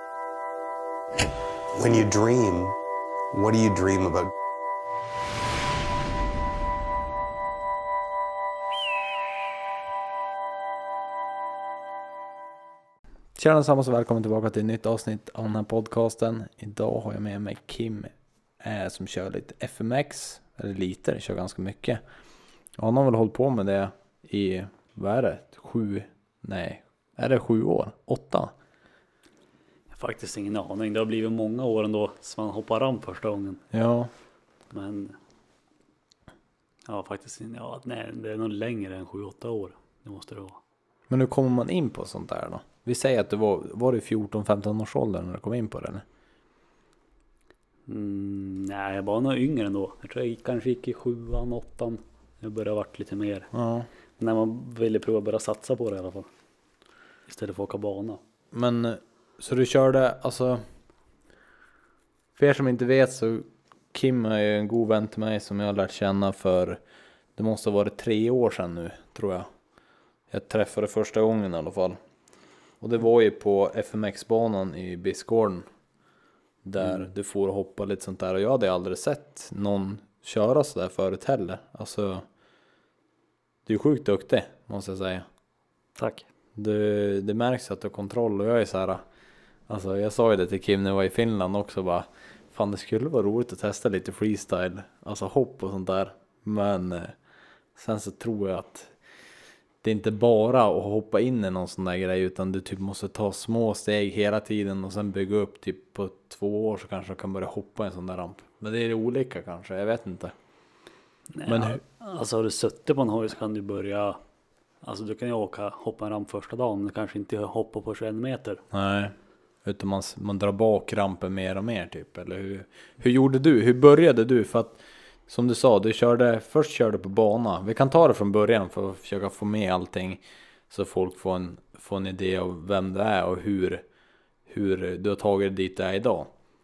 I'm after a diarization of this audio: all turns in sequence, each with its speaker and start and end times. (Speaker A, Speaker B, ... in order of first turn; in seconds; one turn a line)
Speaker A: 1.7-2.7
Speaker A: 3.3-4.3
Speaker B: 13.3-22.0
Speaker B: 22.8-28.5
Speaker C: 29.9-33.6
Speaker B: 33.7-34.1
Speaker C: 34.7-35.2
Speaker C: 36.9-40.6
Speaker B: 41.1-46.0
Speaker C: 47.9-53.5
Speaker B: 53.5-53.9
Speaker C: 54.2-56.3
Speaker C: 57.3-58.2
Speaker B: 58.5-60.6
Speaker B: 62.4-66.8
Speaker B: 67.3-69.5
Speaker B: 70.3-72.0
Speaker B: 72.8-75.7
Speaker B: 76.6-82.2
Speaker B: 83.7-85.2
Speaker C: 86.0-86.2
Speaker B: 86.6-89.0
Speaker B: 89.7-97.1
Speaker B: 97.8-98.9
Speaker B: 99.8-110.3
Speaker C: 111.3-114.2
Speaker B: 111.5-111.8
Speaker C: 114.8-118.6
Speaker B: 118.7-133.8
Speaker B: 134.5-136.3